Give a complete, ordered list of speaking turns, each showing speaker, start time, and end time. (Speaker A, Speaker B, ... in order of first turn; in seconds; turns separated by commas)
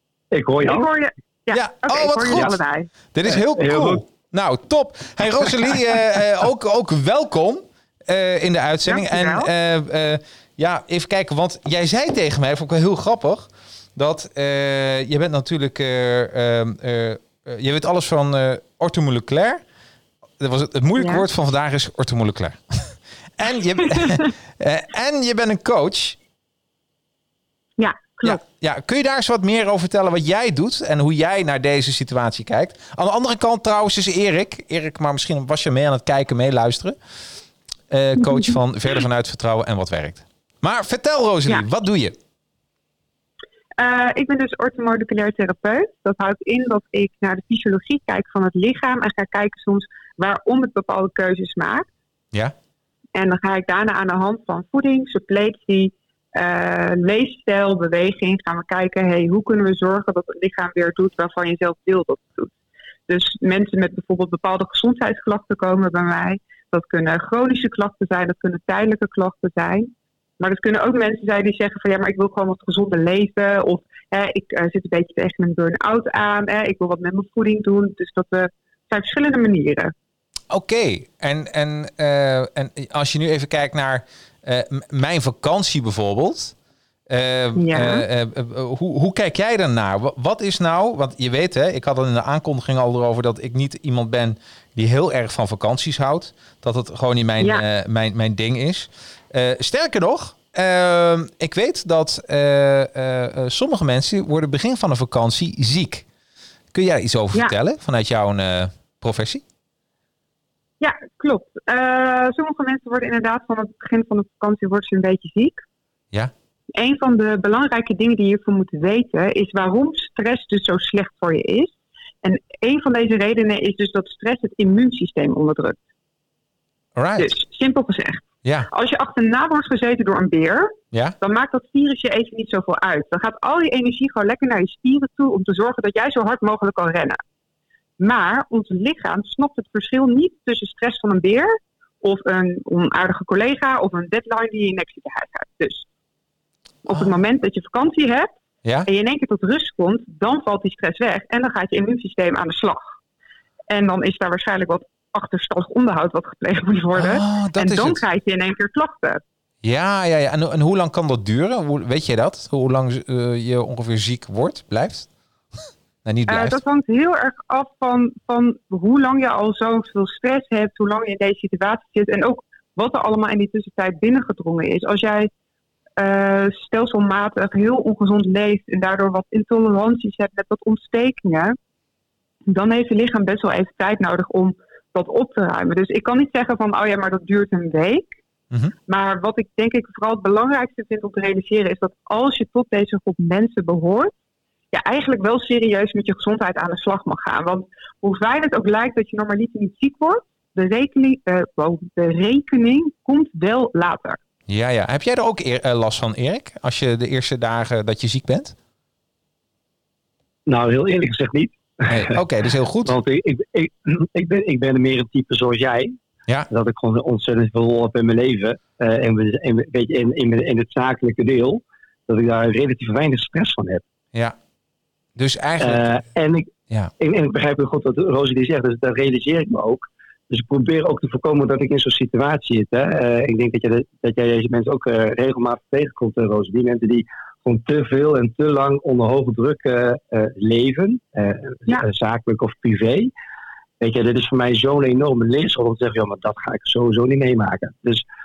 Speaker A: 0.3-0.9, Speaker B: 0.7-2.9, Speaker C: 1.5-2.6, Speaker C: 3.1-19.6, Speaker A: 3.3-4.0, Speaker B: 8.9-9.5, Speaker C: 20.4-26.2, Speaker B: 21.0-21.2, Speaker B: 27.8-28.4, Speaker C: 28.2-37.0, Speaker C: 37.9-42.1, Speaker B: 43.8-51.9, Speaker B: 53.1-62.5, Speaker B: 63.1-79.9, Speaker C: 80.5-86.5, Speaker C: 87.1-106.0, Speaker B: 87.6-88.0, Speaker C: 106.7-109.4, Speaker B: 110.8-115.6, Speaker B: 116.7-121.7, Speaker B: 122.2-125.8, Speaker C: 127.0-127.3, Speaker B: 127.2-137.2, Speaker B: 138.0-145.9, Speaker B: 146.8-148.3, Speaker C: 146.9-147.1, Speaker B: 148.9-152.8, Speaker B: 153.7-159.2, Speaker C: 156.9-158.0, Speaker C: 159.6-165.1, Speaker C: 166.1-166.6, Speaker B: 166.3-175.3, Speaker B: 176.0-181.6, Speaker B: 182.5-188.1, Speaker B: 188.9-194.1, Speaker B: 194.7-204.2, Speaker C: 204.5-208.6, Speaker A: 210.5-212.2, Speaker C: 211.9-212.9, Speaker A: 212.8-216.0, Speaker A: 216.5-223.8, Speaker C: 225.2-226.0, Speaker A: 225.6-243.1, Speaker A: 243.8-248.0